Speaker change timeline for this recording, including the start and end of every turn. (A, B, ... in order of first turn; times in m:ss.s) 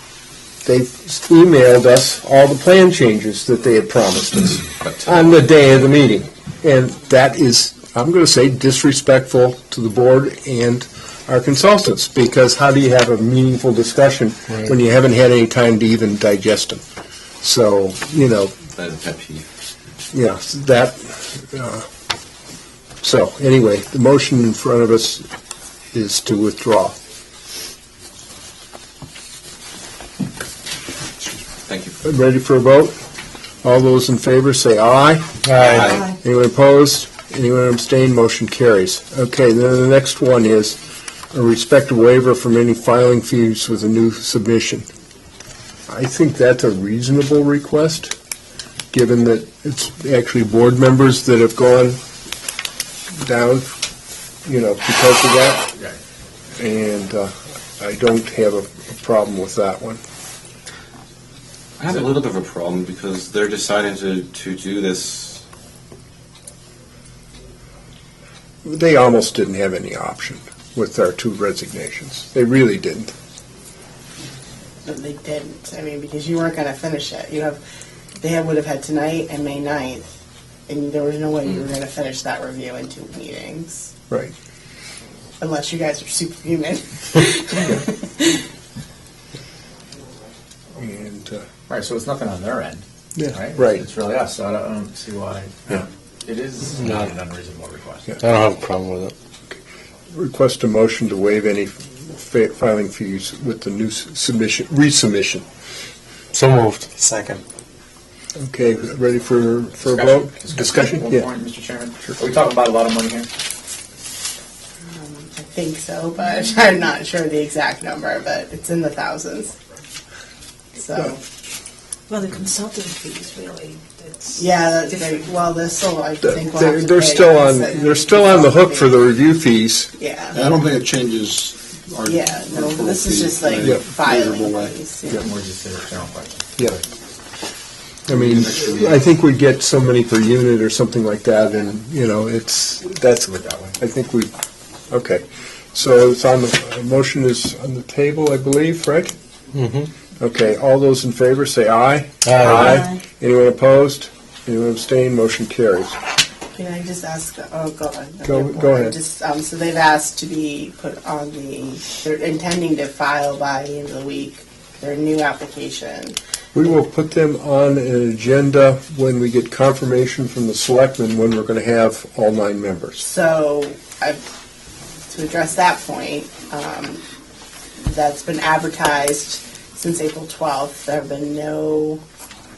0:00.6-0:16.8 A
0:17.4-0:18.6 A
0:18.7-0:19.4 B
0:19.0-0:19.4 C
0:20.1-0:21.9 A
0:23.0-0:25.2 A
0:25.9-0:27.0 A
0:31.7-0:31.9 B
0:32.0-0:33.0 A
0:33.6-0:40.8 A
0:35.4-0:36.0 C
0:41.3-0:44.9 A
0:45.9-0:48.1 A
0:48.9-0:52.0 A
0:53.2-0:53.7 A
0:54.4-0:55.7 A
0:56.6-1:00.0 A
1:01.8-1:05.4 B
1:08.6-1:13.1 A
1:14.8-1:17.6 D
1:18.2-1:20.1 D
1:20.7-1:23.9 D
1:25.4-1:28.4 D
1:30.8-1:31.4 A
1:31.7-1:38.2 E
1:33.2-1:33.8 A
1:36.8-1:37.1 C
1:38.2-1:39.1 C
1:40.1-1:45.4 A
1:46.3-1:47.4 C
1:48.4-1:51.3 A
1:49.9-1:53.3 E
1:54.9-1:59.6 D
2:00.8-2:01.2 D
2:02.1-2:04.4 F
2:04.4-2:09.0 D
2:06.2-2:09.9 A
2:10.0-2:10.4 D
2:10.3-2:14.8 G
2:12.0-2:15.3 D
2:15.1-2:16.8 E
2:18.1-2:24.3 A
2:18.1-2:19.0 G
2:23.3-2:23.8 E
2:24.9-2:29.1 A
2:29.5-2:29.9 C
2:30.2-2:36.0 A
2:32.2-2:32.8 C
2:36.6-2:46.2 D
2:38.2-2:39.0 A
2:46.5-2:53.1 A
2:53.0-2:54.2 D
2:55.1-2:57.0 D
2:57.8-3:02.0 D